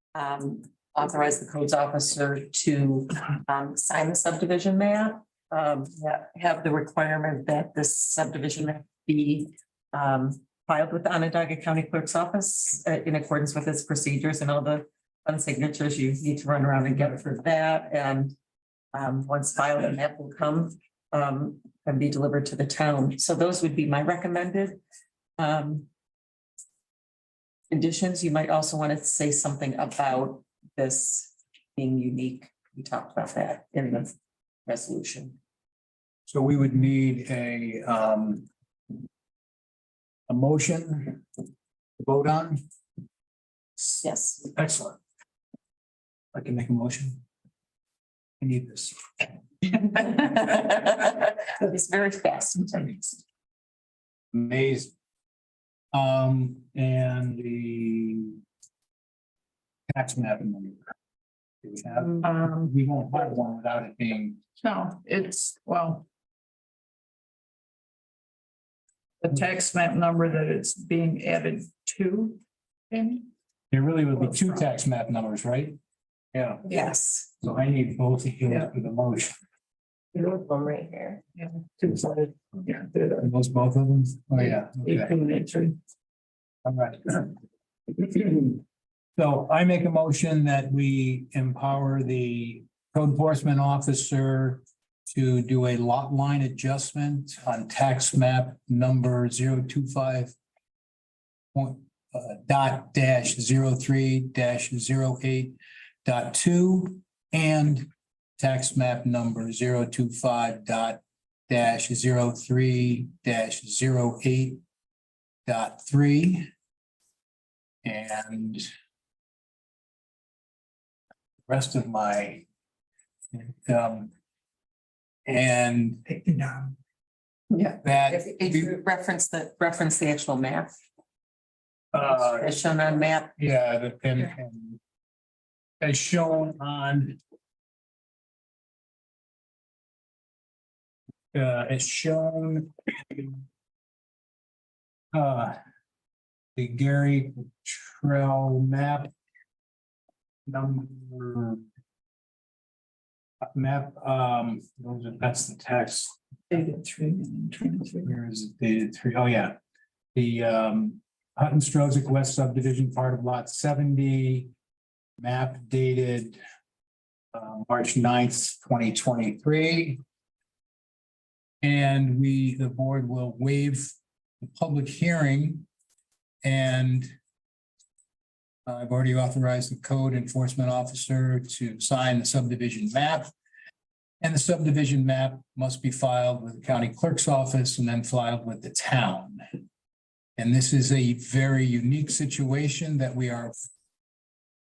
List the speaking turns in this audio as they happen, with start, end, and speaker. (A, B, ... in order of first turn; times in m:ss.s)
0:00.1-0:18.3 A
0:18.9-0:24.8 A
0:25.4-0:25.9 A
0:27.7-0:34.1 A
0:34.6-0:35.4 A
0:36.3-0:38.5 B
0:40.3-0:41.2 B
0:42.0-0:42.6 B
0:44.0-0:44.5 A
0:44.5-0:45.0 B
0:46.3-0:47.2 B
0:48.4-0:49.0 B
0:49.7-0:53.2 A
0:54.3-0:54.9 B
0:55.9-0:58.4 B
0:59.9-1:00.8 B
1:01.6-1:04.4 B
1:02.2-1:02.7 C
1:04.6-1:06.0 C
1:09.2-1:13.3 C
1:13.7-1:15.8 B
1:16.3-1:16.6 B
1:16.7-1:17.1 A
1:16.8-1:17.1 C
1:17.4-1:19.4 B
1:20.1-1:21.2 A
1:21.4-1:23.2 C
1:23.2-1:25.1 B
1:24.8-1:25.8 C
1:26.6-1:27.3 B
1:27.9-1:28.6 B
1:29.2-1:40.3 B
1:41.5-1:54.6 B
1:55.4-1:56.5 B
1:57.8-1:58.6 B
2:01.5-2:02.4 B
2:03.3-2:04.1 B
2:05.2-2:06.0 B
2:06.1-2:06.7 C
2:07.5-2:10.7 A
2:07.8-2:08.7 B
2:11.9-2:12.5 B
2:12.0-2:13.3 A
2:13.4-2:14.8 B
2:15.8-2:17.2 B
2:21.3-2:23.4 B
2:25.1-2:25.6 B
2:26.6-2:29.1 B
2:30.4-2:31.6 B
2:33.5-2:36.1 B
2:36.5-2:38.1 C
2:38.0-2:39.6 B
2:40.1-2:44.5 B
2:45.2-2:46.4 B
2:47.3-2:50.0 B
2:51.6-2:55.7 B
2:56.4-2:57.1 B
2:58.6-3:03.3 B
3:04.2-3:09.4 B
3:10.4-3:13.6 B